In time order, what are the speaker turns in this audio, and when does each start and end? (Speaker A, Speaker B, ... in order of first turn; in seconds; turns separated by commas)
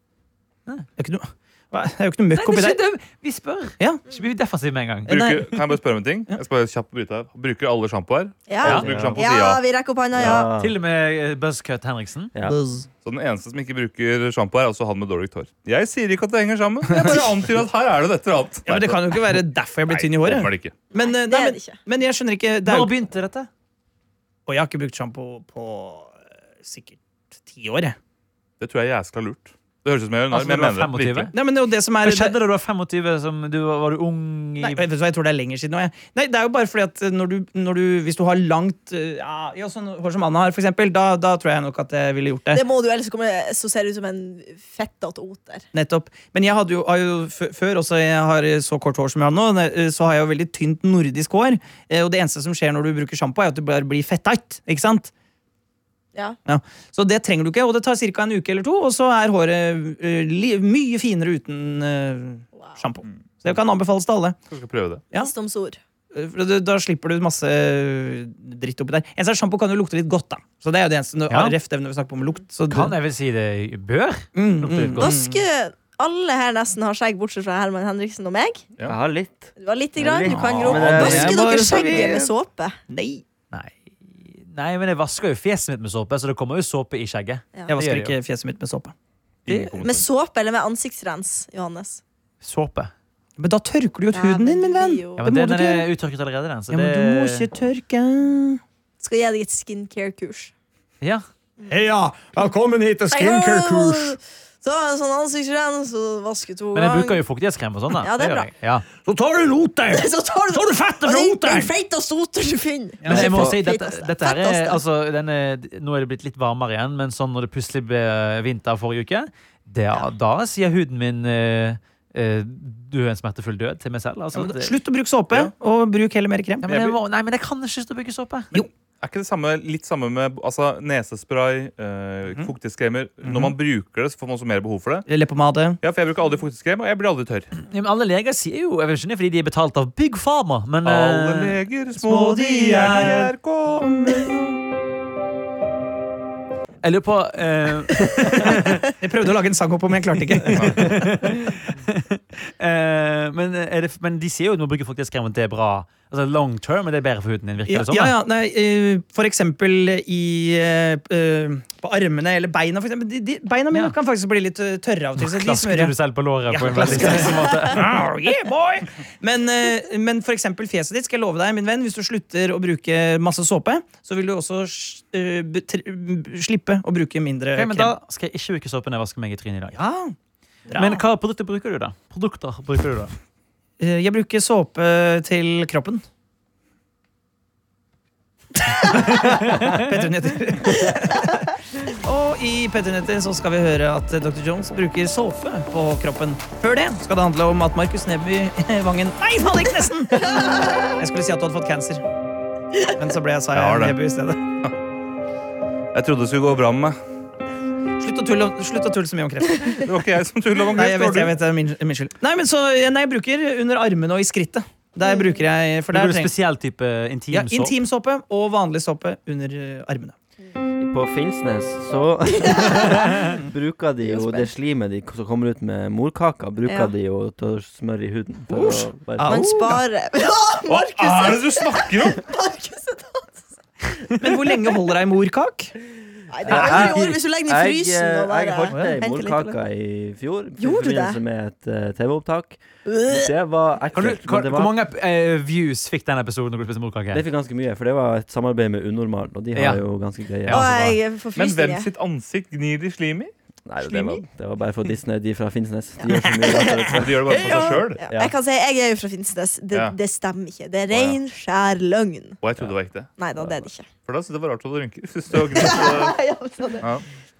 Speaker A: 1.0-2.8, Speaker B: 2.3-5.2, Speaker A: 5.1-5.6, Speaker C: 5.1-9.6, Speaker D: 8.5-10.5, Speaker E: 8.6-9.2, Speaker E: 10.1-10.7, Speaker B: 10.5-12.3, Speaker A: 12.4-12.8, Speaker C: 13.0-20.8, Speaker A: 16.9-17.3, Speaker A: 18.7-22.9, Speaker D: 20.9-21.8, Speaker B: 22.6-23.5, Speaker A: 24.4-27.9, Speaker C: 28.6-31.3, Speaker B: 30.3-31.3, Speaker A: 31.3-32.4, Speaker B: 32.0-34.8, Speaker A: 34.6-42.6, Speaker D: 42.5-45.6, Speaker A: 45.7-55.1, Speaker A: 56.5-64.4, Speaker C: 64.5-65.0, Speaker D: 65.1-65.8, Speaker A: 66.1-72.9, Speaker B: 71.3-71.5, Speaker B: 72.7-75.2, Speaker A: 74.3-75.4, Speaker D: 75.0-78.6, Speaker E: 78.8-82.2, Speaker D: 79.6-82.8, Speaker C: 80.3-80.9, Speaker A: 80.8-82.3, Speaker A: 82.9-83.2, Speaker B: 83.5-88.2, Speaker A: 87.7-88.9, Speaker C: 89.5-90.0, Speaker A: 89.5-89.8, Speaker D: 89.8-92.0, Speaker B: 92.4-92.9, Speaker A: 93.4-95.9, Speaker D: 94.1-95.2, Speaker B: 95.2-97.5, Speaker A: 96.7-98.6, Speaker D: 99.0-100.5, Speaker A: 101.7-104.2, Speaker D: 103.1-107.2, Speaker B: 106.7-108.8, Speaker D: 108.0-108.5, Speaker A: 109.0-111.7, Speaker D: 109.9-114.8, Speaker A: 113.0-113.5, Speaker B: 113.0-124.8, Speaker A: 124.3-126.9, Speaker B: 126.6-128.5, Speaker C: 126.7-126.9, Speaker C: 129.0-135.1, Speaker A: 133.2-133.5, Speaker A: 135.1-135.8, Speaker C: 135.8-137.5, Speaker B: 137.7-141.5, Speaker C: 140.8-143.9, Speaker A: 142.0-143.3, Speaker A: 144.0-144.5, Speaker B: 146.8-148.8, Speaker A: 149.0-150.9, Speaker B: 150.4-158.2, Speaker C: 150.5-150.9, Speaker A: 157.7-165.9, Speaker B: 165.2-167.9, Speaker A: 166.5-177.9, Speaker B: 177.5-179.8, Speaker A: 179.7-180.1, Speaker A: 180.7-181.0, Speaker B: 180.8-183.1, Speaker A: 183.8-186.0, Speaker A: 188.8-202.0, Speaker B: 188.9-189.8, Speaker A: 203.0-204.4, Speaker C: 203.5-204.0, Speaker C: 205.9-206.9, Speaker A: 208.0-209.8, Speaker C: 209.8-211.3, Speaker A: 210.7-216.3, Speaker D: 215.0-215.4, Speaker B: 215.9-217.8, Speaker A: 217.3-220.1, Speaker E: 220.8-229.5, Speaker D: 222.4-223.2, Speaker D: 224.0-224.5, Speaker D: 226.7-226.9, Speaker A: 228.5-229.8, Speaker D: 229.2-233.4, Speaker C: 230.7-232.2, Speaker A: 234.1-235.7, Speaker D: 236.3-239.6, Speaker E: 236.4-244.7, Speaker A: 238.7-238.9, Speaker D: 240.6-241.2, Speaker D: 242.9-243.3, Speaker B: 243.9-247.2, Speaker E: 247.1-250.8, Speaker B: 249.5-249.8, Speaker B: 250.4-251.0, Speaker D: 250.5-251.9, Speaker C: 251.3-253.3, Speaker E: 253.7-258.3, Speaker D: 256.0-262.4, Speaker C: 256.9-258.0, Speaker C: 260.9-261.2, Speaker C: 262.4-263.1, Speaker D: 263.2-263.9, Speaker E: 263.4-263.7, Speaker C: 264.0-266.1, Speaker D: 265.5-266.9, Speaker C: 266.8-267.0